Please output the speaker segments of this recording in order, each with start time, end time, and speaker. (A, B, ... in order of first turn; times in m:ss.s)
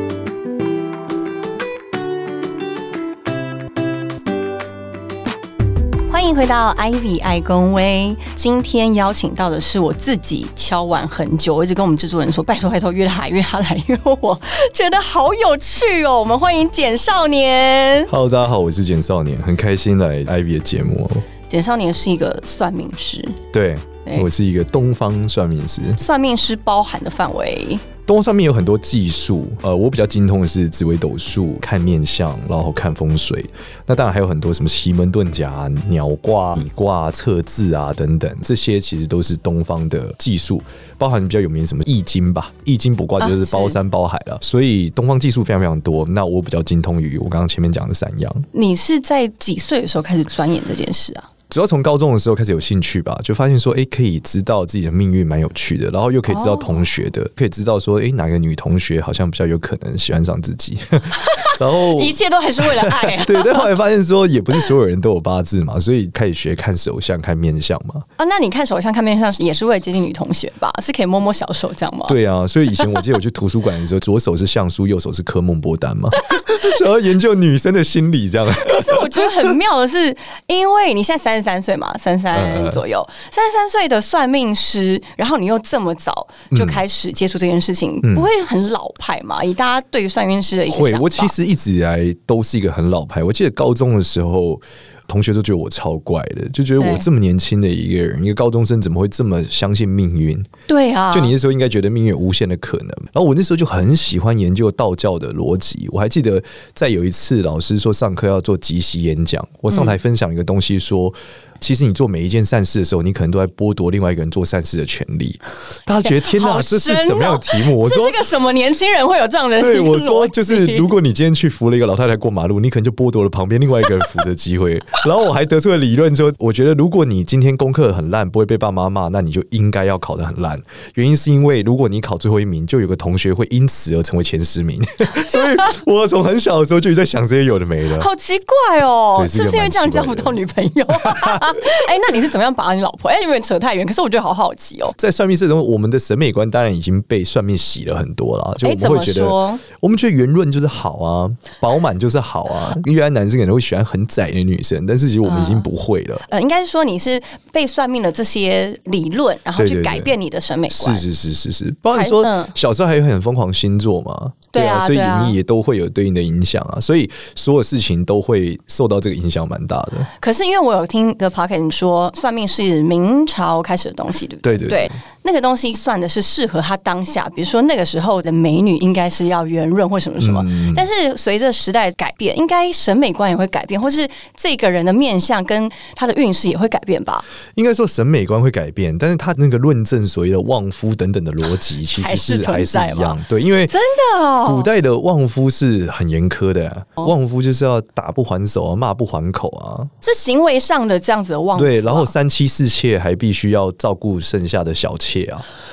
0:06.1-0:18.1 A
0:18.1-0:21.2 B
0:21.5-0:23.4 A
0:23.5-0:26.0 B
0:26.0-0:27.8 A
0:28.1-0:48.5 B
0:43.2-0:43.8 A
0:48.5-0:51.3 A
0:51.5-1:08.0 B
0:56.3-0:56.8 A
1:01.1-1:03.7 A
1:08.2-1:12.2 A
1:12.1-1:19.6 B
1:16.3-1:16.6 A
1:18.6-1:31.3 A
1:22.3-1:22.8 B
1:26.5-1:26.8 B
1:28.0-1:28.3 B
1:30.7-1:40.5 B
1:36.8-1:37.0 A
1:40.7-1:41.3 A
1:41.1-1:58.2 B
1:49.7-1:50.0 A
1:55.9-2:00.9 A
1:59.6-2:18.1 B
2:18.0-2:25.0 A
2:19.2-2:20.4 B
2:21.0-2:21.8 B
2:25.0-2:36.2 B
2:28.6-2:29.6 A
2:35.2-2:35.7 A
2:36.2-2:41.0 A
2:39.6-2:40.1 B
2:40.7-2:50.1 B
2:41.9-2:42.5 A
2:44.5-2:45.4 A
2:50.2-3:07.2 A
2:54.4-2:55.0 B
3:00.2-3:00.8 B
3:07.6-3:13.7 B
3:11.9-3:14.7 A
3:14.4-3:19.9 B
3:20.0-3:22.1 A
3:21.6-3:25.5 B